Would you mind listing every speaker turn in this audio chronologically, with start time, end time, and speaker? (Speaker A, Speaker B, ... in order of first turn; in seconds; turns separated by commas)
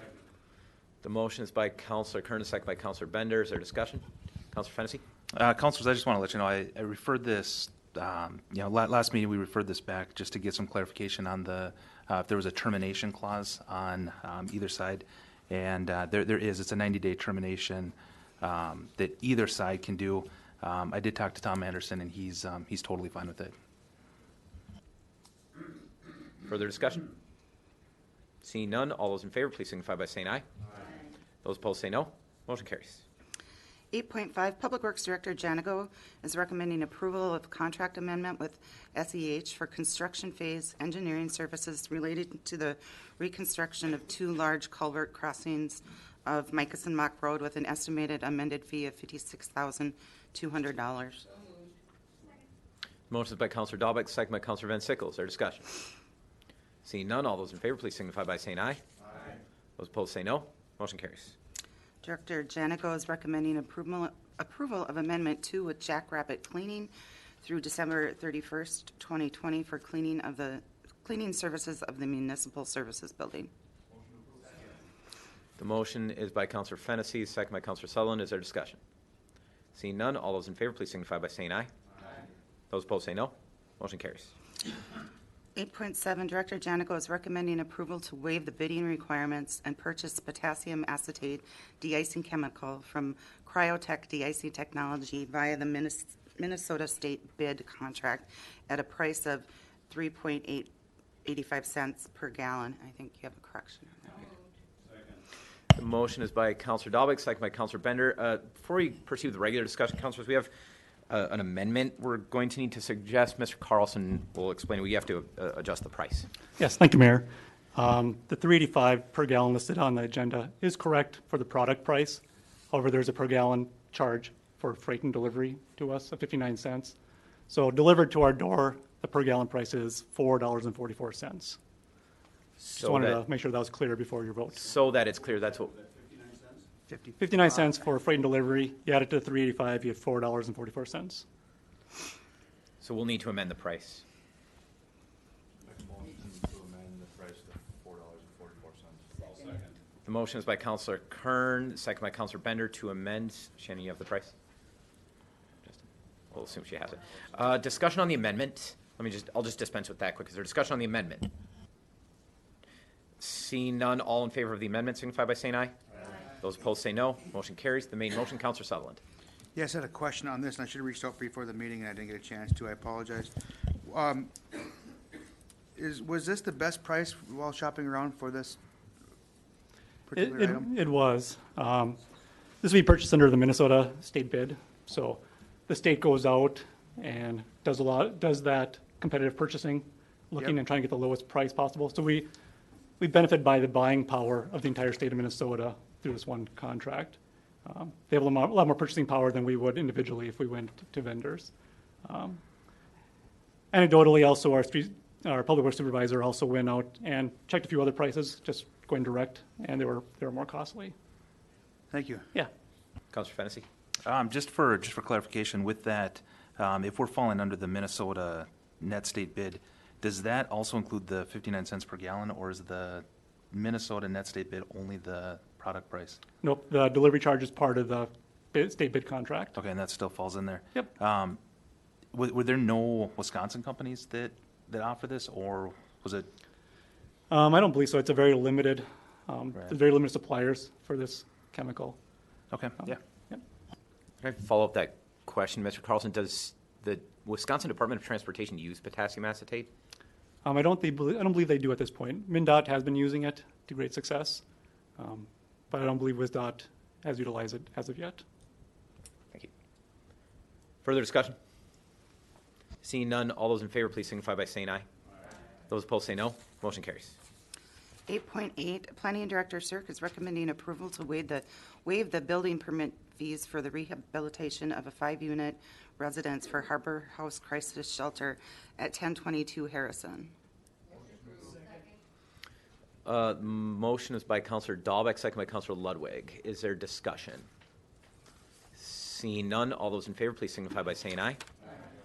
Speaker A: 1.0-5.0, Speaker B: 5.3-23.5, Speaker A: 26.4-27.1, Speaker A: 28.4-30.4, Speaker A: 31.4-33.0, Speaker C: 33.9-51.2, Speaker A: 53.1-55.7, Speaker A: 56.9-58.8, Speaker A: 59.8-61.4, Speaker C: 62.0-66.9, Speaker C: 67.4-73.5, Speaker A: 75.6-78.8, Speaker A: 79.8-81.7, Speaker A: 82.7-84.3, Speaker C: 85.6-100.7, Speaker C: 101.2-104.3, Speaker A: 105.8-110.5, Speaker A: 111.1-116.3, Speaker D: 116.6-127.0, Speaker D: 127.5-131.6, Speaker D: 132.6-134.7, Speaker A: 132.8-133.2, Speaker A: 134.6-135.7, Speaker E: 135.7-136.6, Speaker F: 136.9-137.7, Speaker D: 137.2-141.2, Speaker A: 142.8-144.0, Speaker E: 145.6-149.7, Speaker A: 150.1-154.3, Speaker A: 156.3-161.3, Speaker A: 163.2-165.7, Speaker A: 166.4-169.0, Speaker F: 169.6-174.7, Speaker F: 175.8-178.6, Speaker F: 180.1-180.7, Speaker D: 180.1-182.0, Speaker D: 182.6-192.3, Speaker D: 193.0-201.5, Speaker D: 202.1-202.4, Speaker D: 203.7-210.9, Speaker F: 211.9-212.3, Speaker A: 213.1-213.7, Speaker B: 214.1-226.2, Speaker D: 226.4-229.6, Speaker B: 229.6-231.4, Speaker B: 232.1-236.3, Speaker D: 237.3-242.0, Speaker B: 242.5-243.0, Speaker D: 242.8-243.4, Speaker A: 244.2-249.7, Speaker D: 250.4-254.4, Speaker D: 255.0-258.2, Speaker A: 260.8-261.4, Speaker A: 262.8-264.9, Speaker A: 265.7-267.1, Speaker C: 268.1-280.3, Speaker A: 283.1-287.5, Speaker A: 288.8-291.4